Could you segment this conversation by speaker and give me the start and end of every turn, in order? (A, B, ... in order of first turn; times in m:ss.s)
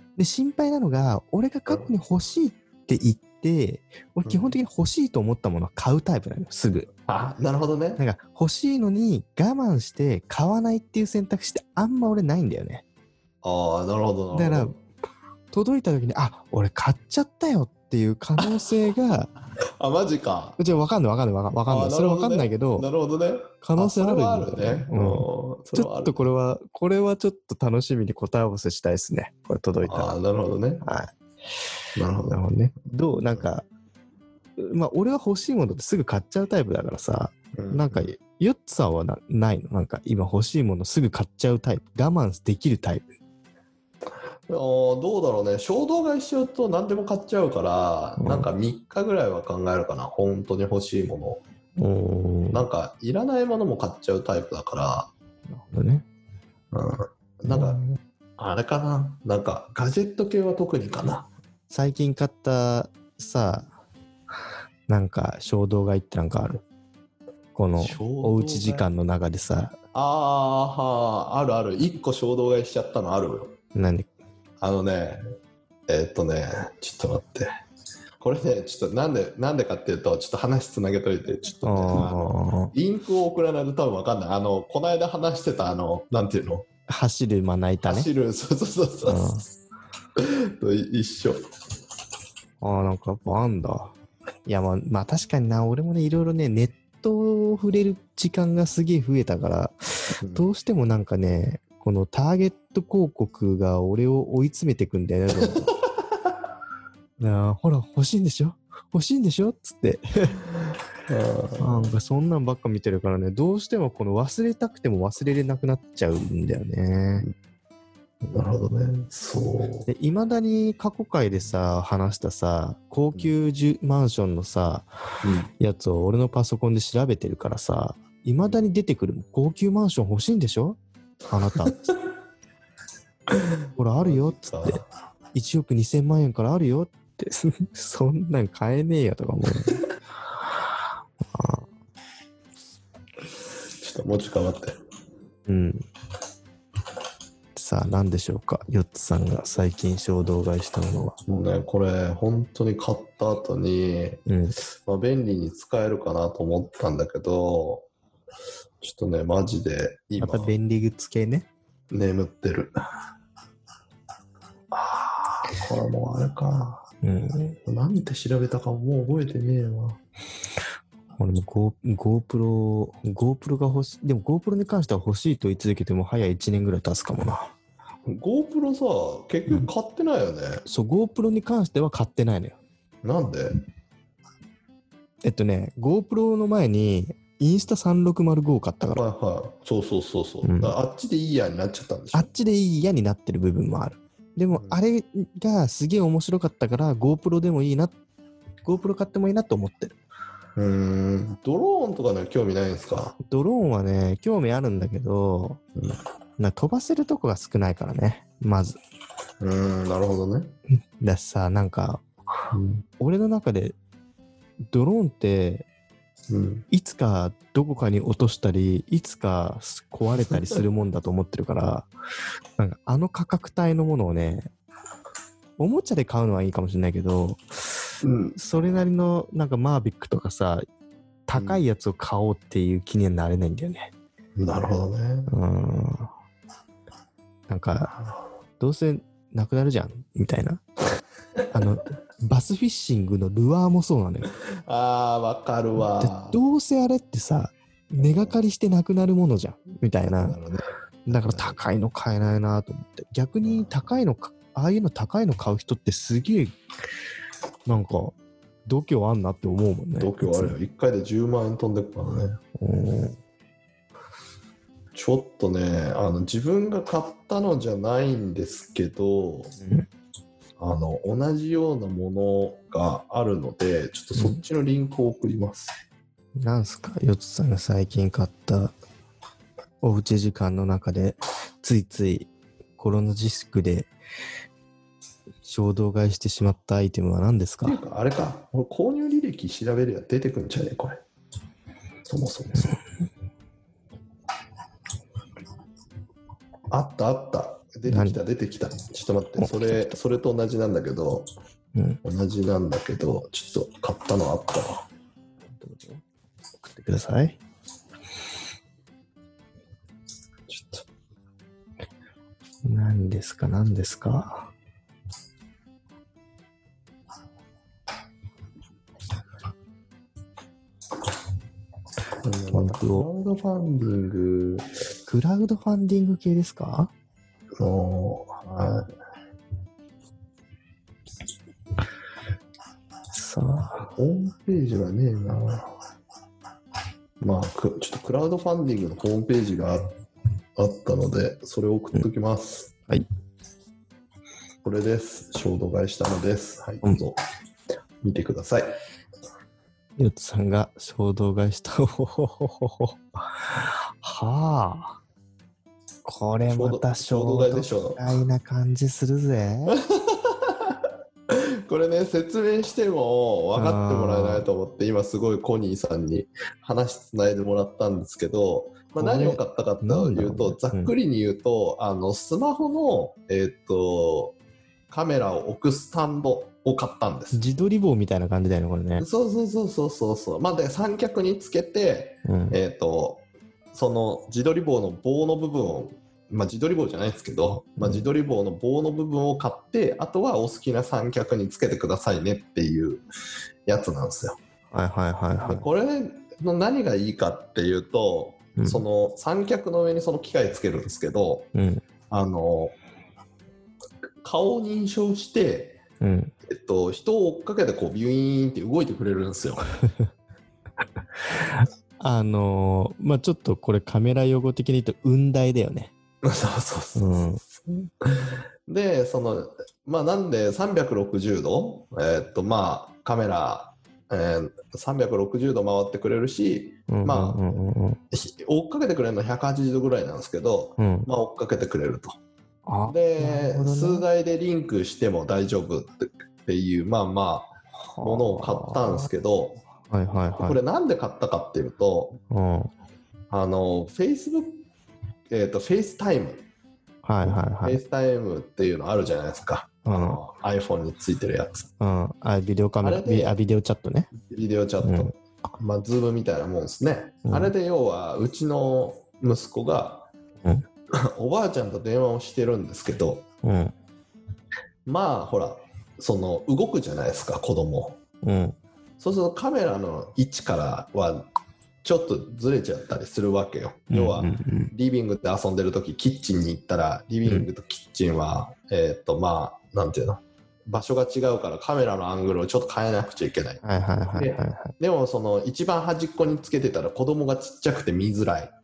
0:00.2-0:06.9 A
0:04.3-0:04.6 B
0:07.1-0:08.0 B
0:08.0-0:12.8 A
0:13.4-0:14.7 B
0:14.3-0:14.8 A
0:15.5-0:19.3 A
0:19.8-0:20.6 B
0:20.6-0:22.9 A
0:21.7-0:26.3 B
0:23.6-0:30.1 A
0:29.8-0:30.8 B
0:30.8-0:31.1 A
0:32.0-0:32.4 B
0:32.3-0:33.7 A
0:34.6-0:43.1 A
0:37.6-0:38.1 B
0:44.5-0:51.4 B
0:48.2-0:48.5 A
0:51.8-0:52.6 A
0:52.5-0:55.1 B
0:55.5-0:56.1 A
0:56.7-0:57.8 B
0:57.5-0:58.0 A
0:58.4-1:01.3 B
1:01.7-1:03.7 A
1:04.9-1:06.6 A
1:07.6-1:09.8 A
1:07.8-1:08.9 B
1:09.9-1:13.6 B
1:13.8-1:14.1 A
1:14.6-1:15.2 B
1:15.9-1:17.5 B
1:18.2-1:26.7 B
1:21.6-1:22.7 A
1:26.9-1:28.1 A
1:27.8-1:29.3 B
1:29.1-1:29.5 A
1:30.2-1:31.4 B
1:32.6-1:33.9 A
1:34.5-1:45.7 A
1:40.2-1:40.5 B
1:47.2-1:50.4 A
1:51.1-1:51.9 B
1:51.6-1:57.3 A
1:58.3-1:59.9 B
1:59.9-2:04.9 A
2:05.2-2:05.5 B
2:05.6-2:10.8 A
2:11.3-2:11.9 A
2:13.8-2:14.8 A
2:14.0-2:14.8 B
2:15.3-2:19.8 A
2:21.3-2:21.7 A
2:23.8-2:24.8 B
2:25.5-2:25.8 A
2:27.6-2:31.2 A
2:31.3-2:37.9 B
2:34.3-2:34.6 A
2:38.8-2:40.5 B
2:40.2-2:41.5 A
2:41.9-2:42.7 B
2:44.7-2:46.9 B
2:47.0-2:47.6 A
2:47.7-2:50.0 B
2:51.2-2:57.5 A
2:58.1-3:00.6 B
3:00.7-3:02.6 A
3:03.0-3:03.6 B
3:05.2-3:09.0 A
3:08.9-3:12.3 B
3:10.4-3:10.8 A
3:12.1-3:17.9 A
3:14.5-3:14.8 B
3:18.6-3:20.0 A
3:20.6-3:23.2 B
3:23.2-3:25.6 A
3:26.4-3:28.8 A
3:29.4-3:30.5 B
3:30.7-3:32.0 A
3:32.5-3:32.8 B
3:33.0-3:33.8 A
3:34.7-3:35.7 A
3:36.3-3:36.7 B
3:36.7-3:41.9 A
3:42.6-3:44.5 A
3:45.6-3:47.4 A
3:48.0-3:48.4 B
3:48.4-3:50.7 A
3:51.3-3:53.9 A
3:51.4-3:51.6 B
3:54.4-3:55.3 B
3:55.3-3:56.1 A
3:57.5-3:57.9 A
3:58.6-4:00.6 A
4:01.5-4:04.3 A
4:04.5-4:06.4 B
4:05.8-4:10.4 A
4:08.0-4:08.3 B
4:10.1-4:11.6 B
4:11.1-4:16.5 A
4:17.7-4:20.6 A
4:20.0-4:22.4 B
4:22.6-4:23.2 A
4:24.9-4:29.6 B
4:29.6-4:29.9 A
4:30.6-4:35.8 B
4:36.4-4:38.7 A
4:39.8-4:43.9 A
4:45.4-4:47.8 A
4:47.6-4:51.0 B
4:52.0-4:52.8 B
4:56.7-5:01.3 B
4:57.9-4:58.2 A
4:59.4-4:59.9 A
5:02.0-5:04.9 B
5:05.6-5:06.0 A
5:06.6-5:07.4 A
5:10.5-5:10.8 B
5:12.6-5:14.5 A
5:22.2-5:24.7 B
5:22.5-5:23.1 A
5:25.1-5:26.9 A
5:27.6-5:28.9 B
5:33.1-5:33.9 A
5:34.0-5:35.7 B
5:37.2-5:39.9 B
5:40.6-5:42.7 B
5:44.6-5:47.2 B
5:48.0-5:48.7 B
5:50.0-5:55.0 A
5:56.0-5:59.8 A
5:56.5-5:58.0 B
5:59.7-6:14.4 B
6:03.6-6:04.5 A
6:09.0-6:10.9 A
6:14.9-6:17.4 B
6:17.3-6:19.0 A
6:19.0-6:33.0 B
6:22.2-6:22.6 A
6:27.8-6:28.0 A
6:33.7-6:34.4 B
6:34.7-6:35.7 A
6:35.4-6:41.5 B
6:38.6-6:38.8 A
6:41.5-6:41.8 A
6:42.1-6:42.7 B
6:44.2-6:45.8 B
6:46.0-6:46.3 A
6:46.5-6:49.6 B
6:51.4-6:55.9 A
6:56.2-7:07.6 B
6:57.0-6:57.4 A
7:06.9-7:08.0 A
7:08.1-7:12.2 B
7:10.8-7:11.1 A
7:12.7-7:14.0 A
7:12.9-7:19.6 B
7:17.9-7:19.1 A
7:19.9-7:20.6 A
7:20.4-7:22.2 B
7:22.3-7:22.7 A
7:23.3-7:24.6 B
7:25.3-7:26.4 B
7:27.0-7:27.8 A
7:27.2-7:31.7 B
7:29.9-7:30.2 A
7:31.8-7:34.1 A
7:32.8-7:33.4 B
7:34.2-7:40.1 B
7:34.8-7:35.1 A
7:37.3-7:37.5 A
7:40.9-7:43.3 B
7:43.4-7:43.7 A
7:44.9-7:48.0 B
7:48.2-7:48.6 A
7:49.0-7:51.3 B
7:51.8-8:08.5 B
7:53.9-7:54.7 A
8:03.6-8:04.7 A